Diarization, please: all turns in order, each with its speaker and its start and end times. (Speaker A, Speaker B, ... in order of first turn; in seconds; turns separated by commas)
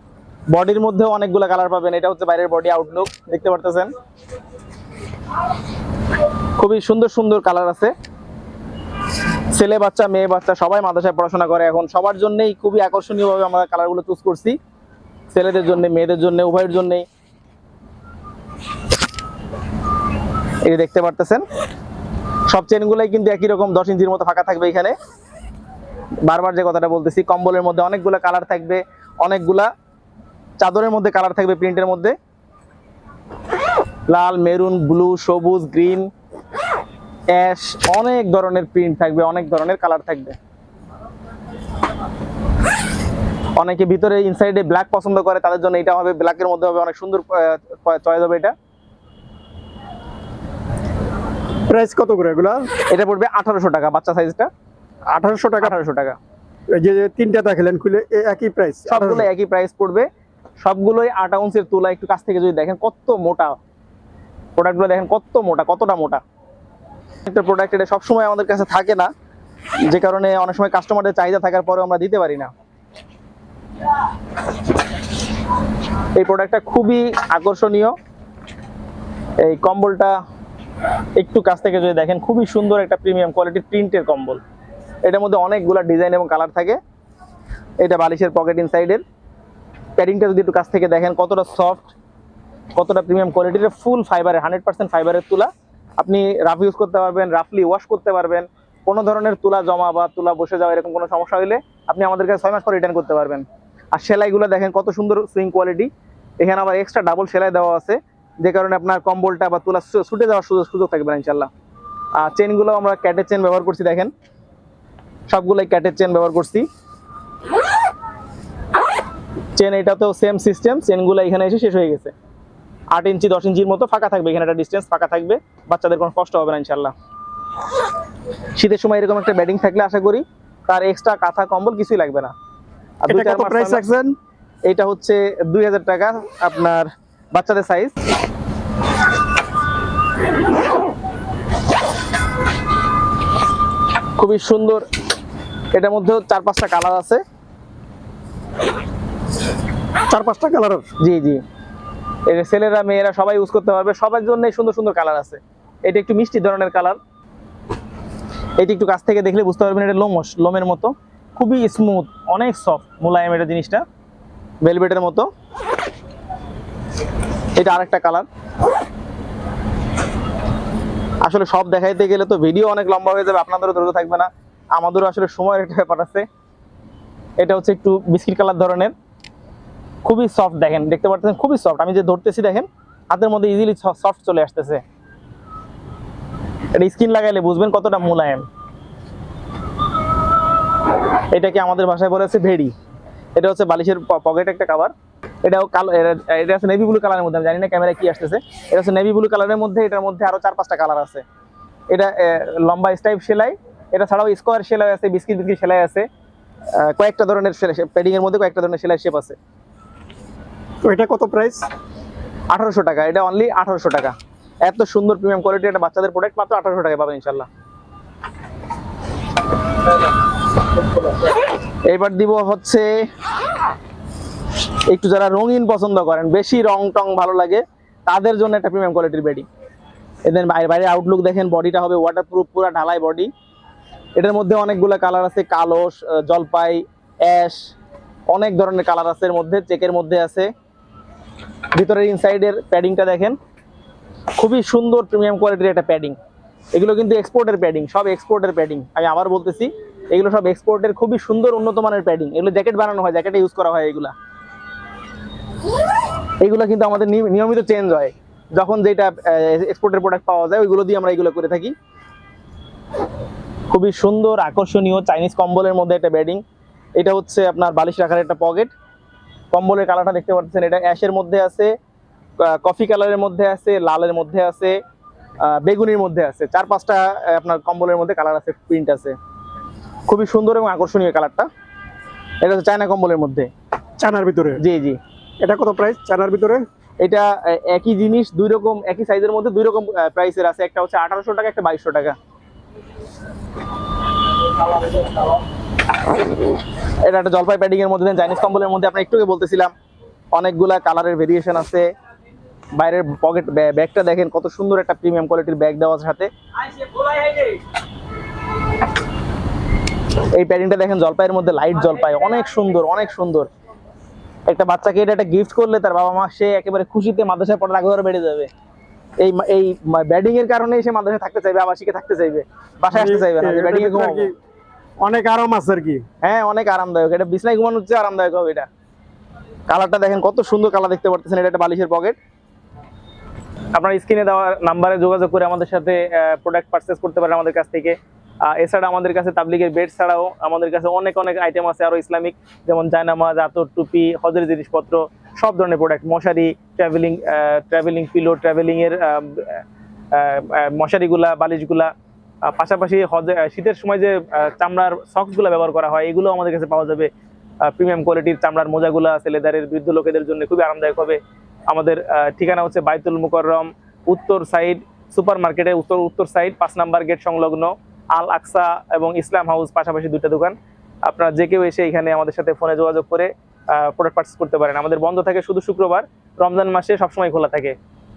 Speaker A: 0.5-3.9, Speaker A: 6.6-7.9, Speaker A: 9.5-14.6, Speaker A: 15.3-17.1, Speaker A: 20.6-21.4, Speaker A: 22.5-24.9, Speaker A: 26.2-29.7, Speaker A: 30.6-32.1, Speaker A: 34.1-36.1, Speaker A: 37.3-40.4, Speaker A: 43.5-48.5, Speaker B: 51.7-52.7, Speaker A: 52.9-54.5, Speaker B: 55.1-55.7, Speaker A: 55.6-56.2, Speaker B: 56.7-59.2, Speaker A: 58.9-60.1, Speaker A: 60.6-63.6, Speaker A: 64.5-66.2, Speaker A: 67.2-69.1, Speaker A: 69.9-72.5, Speaker A: 76.2-77.9, Speaker A: 79.4-80.1, Speaker A: 81.2-84.4, Speaker A: 85.0-86.8, Speaker A: 87.8-89.0, Speaker A: 90.0-91.9, Speaker A: 92.7-111.5, Speaker A: 112.2-114.1, Speaker A: 115.3-116.7, Speaker A: 119.5-122.1, Speaker A: 122.9-126.9, Speaker A: 128.6-132.3, Speaker A: 133.0-133.8, Speaker B: 133.1-134.2, Speaker A: 134.7-137.9, Speaker A: 144.2-144.8, Speaker A: 145.7-147.2, Speaker B: 150.1-150.9, Speaker A: 151.0-151.4, Speaker A: 152.3-157.0, Speaker A: 158.6-163.8, Speaker A: 164.6-165.3, Speaker A: 167.6-168.3, Speaker A: 171.2-176.2, Speaker A: 177.4-178.9, Speaker A: 180.0-184.8, Speaker A: 186.7-188.5, Speaker A: 191.3-192.7, Speaker A: 193.3-194.9, Speaker A: 195.4-201.2, Speaker A: 201.9-206.1, Speaker A: 206.7-209.4, Speaker B: 210.8-211.7, Speaker A: 212.5-214.1, Speaker A: 214.6-217.5, Speaker A: 221.9-222.9, Speaker A: 224.9-229.5, Speaker A: 230.2-233.3, Speaker A: 234.2-237.6, Speaker A: 238.3-240.5, Speaker A: 241.7-243.4, Speaker A: 244.4-246.2, Speaker A: 246.7-254.1, Speaker A: 256.4-261.7, Speaker A: 263.7-266.4, Speaker A: 267.0-268.7, Speaker A: 269.5-271.7, Speaker A: 272.4-274.8, Speaker A: 275.4-279.1, Speaker A: 280.1-281.5, Speaker A: 282.4-283.5, Speaker B: 284.0-284.6, Speaker A: 284.6-285.0, Speaker B: 285.4-286.6, Speaker A: 287.0-292.1, Speaker A: 297.0-299.7, Speaker A: 300.3-301.9, Speaker A: 302.8-307.6, Speaker A: 310.3-313.5, Speaker A: 314.5-318.5, Speaker A: 319.2-324.3, Speaker B: 322.9-324.3, Speaker B: 325.0-326.0, Speaker A: 326.2-328.7, Speaker A: 329.7-332.2, Speaker A: 333.7-351.9, Speaker A: 352.4-357.1, Speaker A: 357.6-377.8